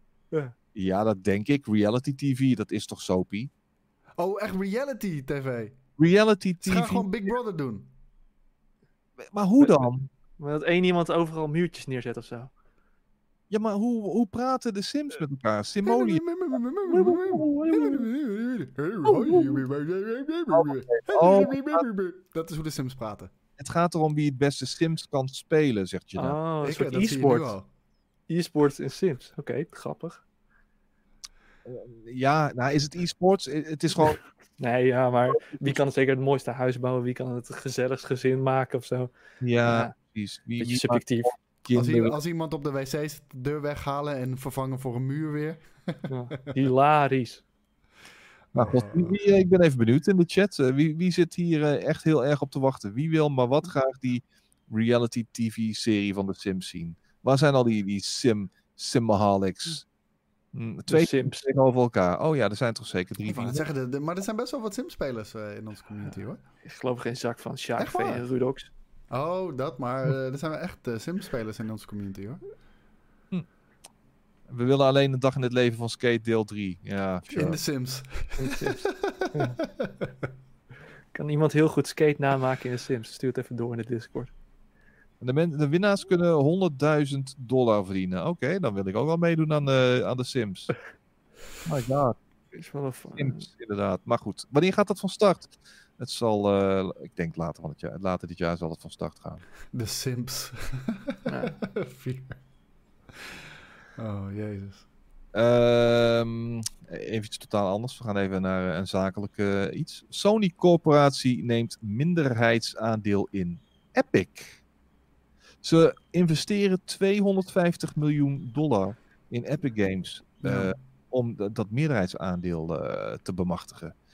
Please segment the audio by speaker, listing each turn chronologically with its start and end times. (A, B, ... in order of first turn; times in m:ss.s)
0:00.7-0:03.5 A
0:04.2-0:05.7 B
0:06.0-0:07.1 A
0:06.6-0:07.9 B
0:09.2-0:10.1 A
0:10.4-0:12.5 C
0:13.5-0:16.2 A
0:15.8-0:23.3 B
0:16.9-0:18.1 A
0:19.0-0:19.6 A
0:20.5-0:21.8 A
0:23.6-0:26.4 A
0:26.2-0:27.5 C
0:26.6-0:27.6 B
0:28.3-0:30.2 C
0:31.6-0:34.2 A
0:34.6-0:39.1 C
0:35.3-0:35.8 A
0:39.4-0:42.1 A
0:39.6-0:39.9 C
0:40.6-0:41.3 C
0:41.7-0:46.5 B
0:46.1-0:47.4 C
0:48.5-0:49.1 B
0:48.5-0:59.8 A
1:00.5-1:03.6 A
1:00.9-1:01.4 C
1:03.2-1:06.4 B
1:06.6-1:08.7 C
1:07.8-1:08.2 B
1:09.1-1:12.4 B
1:14.5-1:17.6 A
1:17.3-1:20.1 B
1:18.4-1:18.8 C
1:21.1-1:24.3 C
1:25.2-1:30.7 A
1:31.6-1:32.2 A
1:32.5-1:33.4 C
1:33.2-1:39.4 A
1:39.7-1:42.4 B
1:41.3-1:41.5 C
1:44.0-1:44.8 B
1:45.3-1:54.6 A
1:55.6-2:03.9 A
2:00.4-2:00.7 B